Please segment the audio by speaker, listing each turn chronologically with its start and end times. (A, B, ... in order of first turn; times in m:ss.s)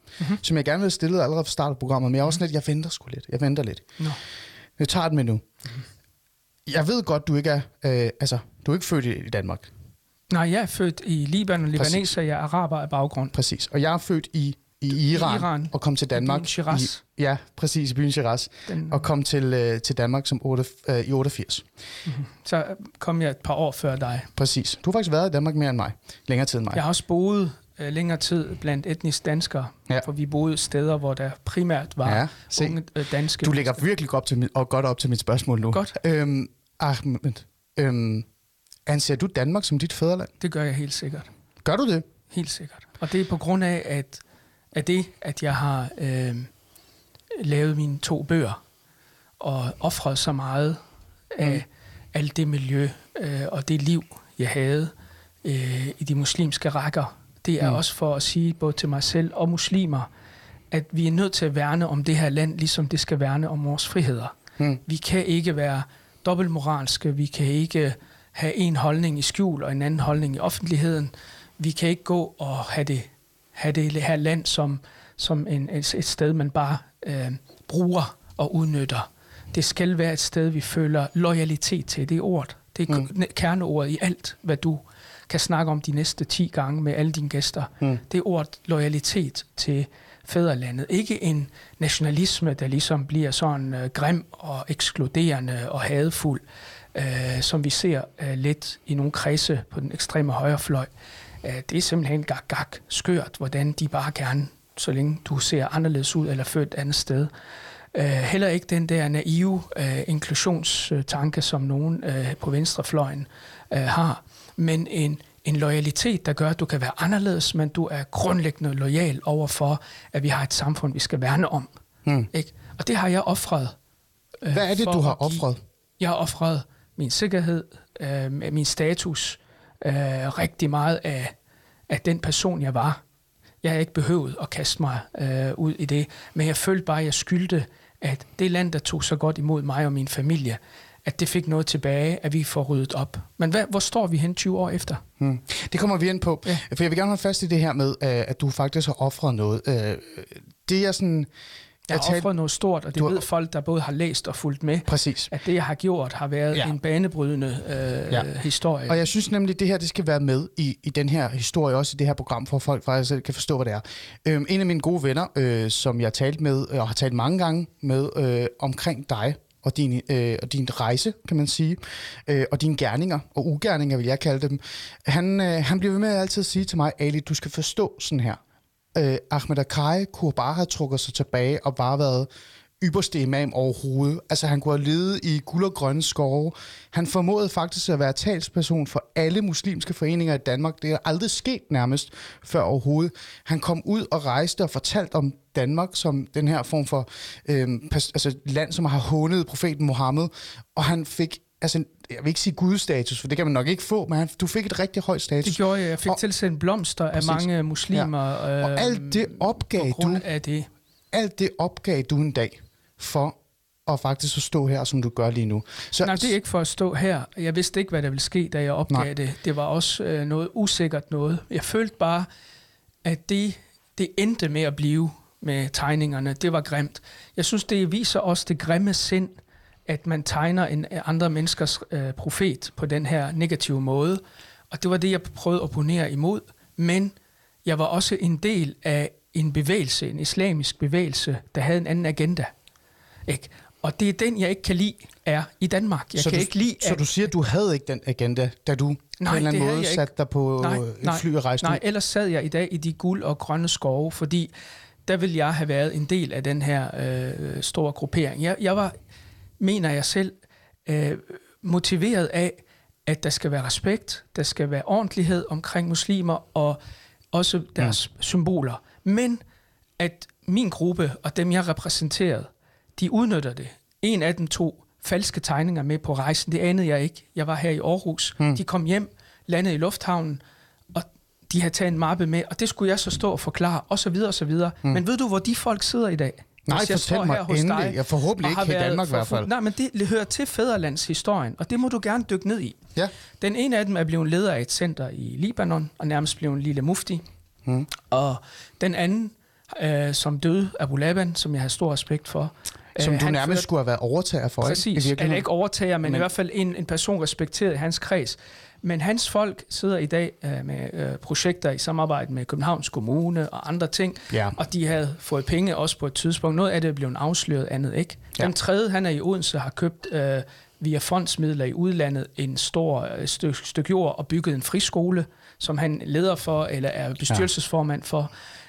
0:00.4-0:03.8 A
0:04.8-0:05.4 A
0:06.7-0:09.7 A
0:10.3-0:13.4 B
0:11.8-0:12.1 A
0:13.3-0:21.7 A
0:15.0-0:17.0 B
0:18.7-0:19.0 B
0:22.0-0:24.3 B
0:24.4-0:26.8 A
0:26.7-0:33.8 B
0:32.0-0:32.8 A
0:33.4-0:38.3 A
0:38.9-0:40.3 A
0:40.4-0:41.3 B
0:41.6-0:42.1 A
0:42.3-0:44.2 B
0:44.7-0:46.5 B
0:47.4-0:48.6 B
0:49.4-0:50.8 B
0:51.3-0:54.9 B
0:55.4-1:00.1 B
1:00.7-1:04.3 B
1:04.8-1:36.4 B
1:36.9-1:40.9 B
1:41.4-1:47.3 B
1:47.9-2:01.7 B
2:02.3-2:03.8 B
2:04.4-2:05.5 B
2:04.5-2:05.6 A
2:06.0-2:11.4 B
2:11.9-2:13.0 B
2:13.6-2:25.0 B
2:25.2-2:31.3 A
2:31.9-2:32.3 A
2:31.9-2:39.0 B
2:33.0-2:33.2 A
2:34.9-2:35.3 A
2:38.9-2:58.4 A
2:59.0-3:02.3 A
3:02.8-3:26.2 A
3:25.4-3:30.7 B
3:27.1-3:30.2 A
3:31.1-3:36.3 A
3:36.0-3:42.3 B
3:43.0-4:02.5 B
4:03.3-4:07.0 B
4:06.2-4:11.8 A
4:09.2-4:14.5 B
4:15.1-4:18.9 B
4:19.6-4:20.3 B
4:20.9-4:26.8 B
4:27.3-4:29.4 B
4:30.0-4:40.4 B
4:40.9-4:52.8 B
4:46.7-4:49.5 A
4:53.4-4:57.2 B
4:58.1-5:03.7 B
5:03.0-5:05.4 A
5:04.6-5:28.3 B